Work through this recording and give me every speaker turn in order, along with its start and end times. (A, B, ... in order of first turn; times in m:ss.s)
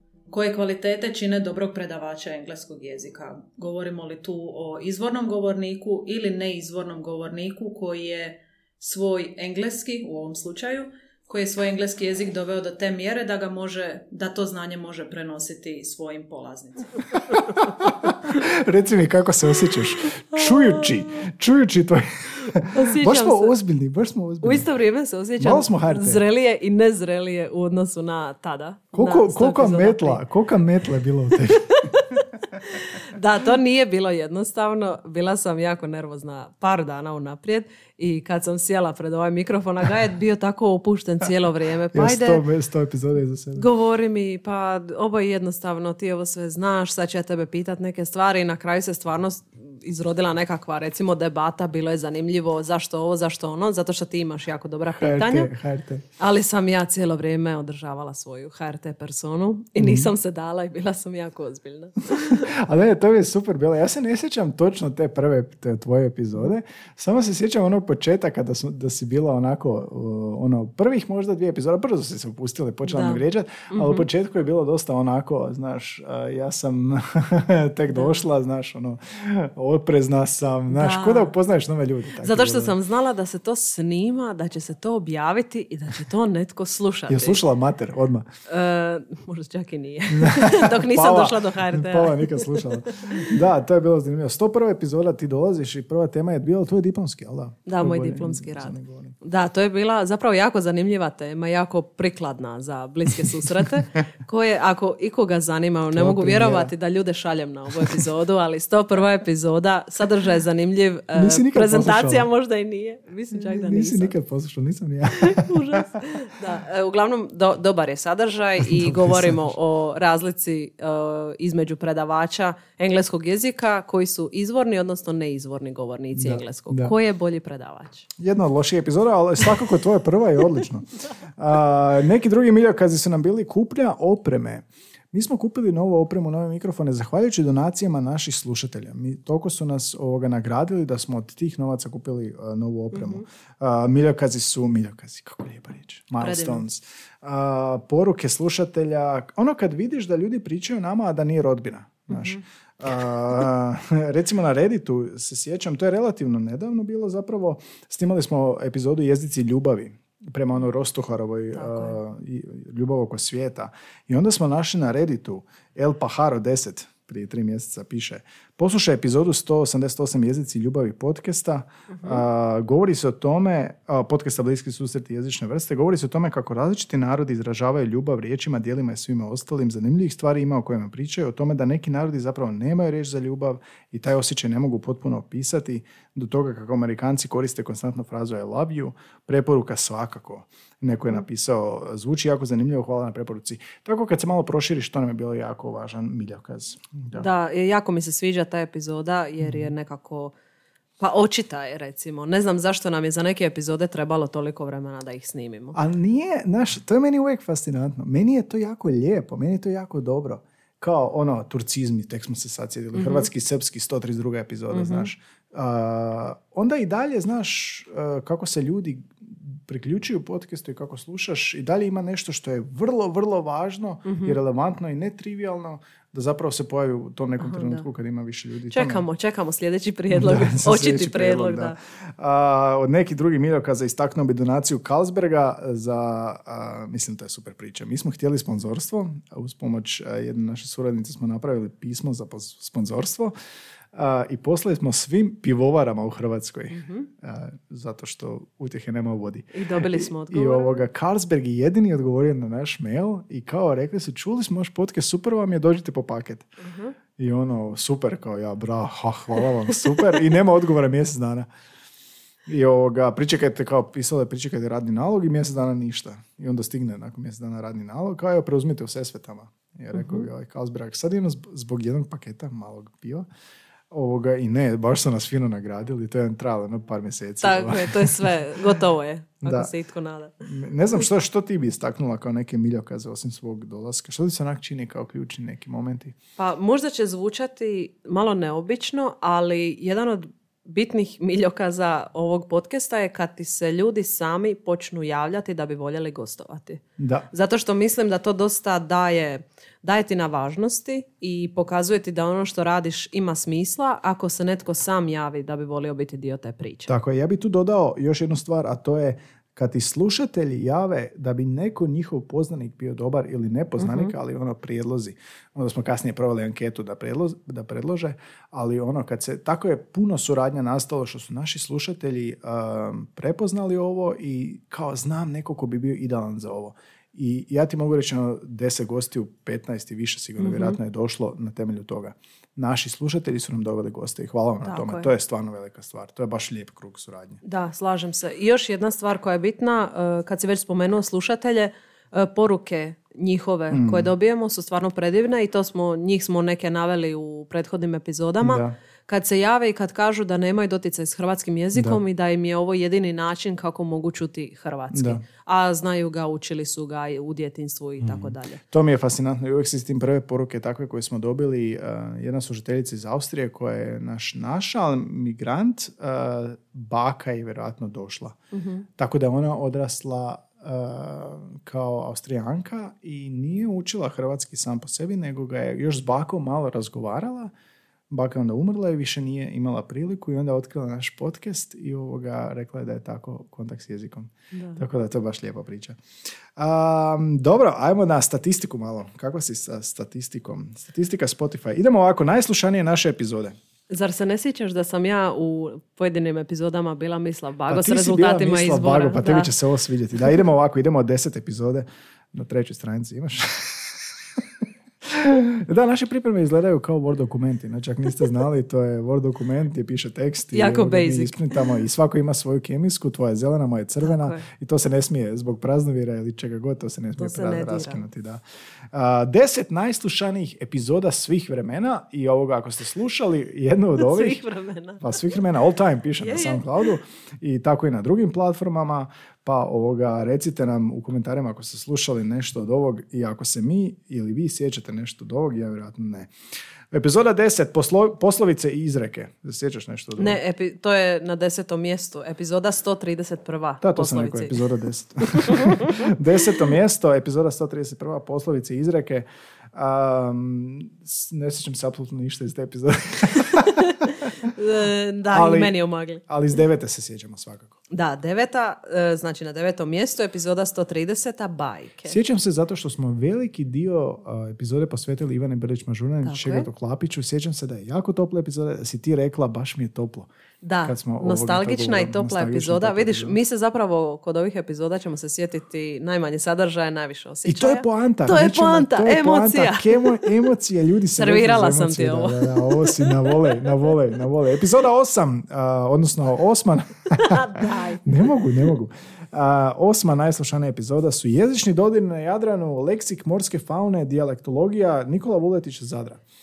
0:00.3-0:16.8 A
0:17.8-0:24.7 B
0:22.7-0:23.6 C
0:24.4-0:30.2 C
0:25.4-0:26.2 B
0:28.9-0:31.9 B
0:31.8-0:42.4 C
0:41.9-0:43.7 B
0:43.6-0:55.5 C
0:55.0-0:56.0 B
0:56.2-1:02.5 C
0:59.8-1:00.1 B
1:02.1-1:22.8 B
1:12.9-1:14.1 C
1:17.9-1:18.2 C
1:20.7-1:21.3 C
1:22.2-1:27.4 C
1:27.1-1:28.3 B
1:28.5-1:32.5 C
1:30.1-1:39.2 B
1:37.7-1:54.1 C
1:45.9-1:46.7 B
1:51.1-1:52.3 B
1:53.4-1:55.9 B
1:55.2-2:08.1 C
1:58.6-1:59.4 B
2:06.2-2:06.9 B
2:08.2-3:17.3 B
2:22.9-2:23.2 C
2:26.2-2:26.6 C
2:32.1-2:32.4 C
2:41.5-2:42.0 C
2:51.9-2:52.2 C
3:17.1-3:20.3 C
3:19.4-3:19.7 B
3:21.0-3:25.8 C
3:25.8-3:49.0 B
3:32.9-3:33.3 C
3:34.7-3:35.1 C
3:44.1-3:44.4 C
3:47.4-3:47.9 C
3:48.7-3:51.8 C
3:50.1-4:03.4 B
4:03.9-4:16.5 B
4:06.7-4:07.1 C
4:09.5-4:10.8 C
4:16.6-4:17.0 C
4:17.2-4:21.5 B
4:22.5-4:33.3 B
4:30.0-4:30.2 C
4:33.9-4:38.3 B
4:37.4-4:40.3 C
4:39.4-4:39.7 B
4:40.4-4:46.2 B
4:46.4-4:56.8 C
4:57.0-4:57.3 B
4:57.3-5:06.9 C
5:06.9-5:37.4 B
5:13.8-5:14.1 C
5:30.4-5:30.8 C
5:34.6-5:35.1 C
5:37.4-5:58.6 C
5:43.7-5:44.1 B
5:48.4-5:48.8 B
5:51.8-5:52.0 B
5:54.9-5:55.2 B
5:58.0-6:08.4 B
6:08.5-6:08.9 C
6:09.0-6:17.5 B
6:18.1-6:26.0 B
6:24.5-6:24.8 C
6:26.6-6:33.6 B
6:33.9-6:39.5 C
6:37.7-6:44.4 B
6:45.0-6:58.4 B
6:50.5-6:51.4 C
6:54.0-6:54.5 C
6:57.2-6:58.0 C
6:58.9-7:04.4 B
7:04.0-7:05.0 C
7:05.0-7:16.3 B
7:06.2-7:06.8 C
7:16.9-7:20.4 B
7:20.2-7:24.6 C
7:23.8-7:34.5 B
7:25.4-7:25.9 C
7:34.6-7:36.2 C
7:35.3-7:37.8 B
7:37.9-7:42.2 C
7:42.1-7:50.3 B
7:46.2-7:46.7 C
7:50.6-8:00.3 C
7:50.8-7:53.4 B
7:57.5-8:16.2 B
8:01.2-8:03.4 C
8:07.2-8:08.7 C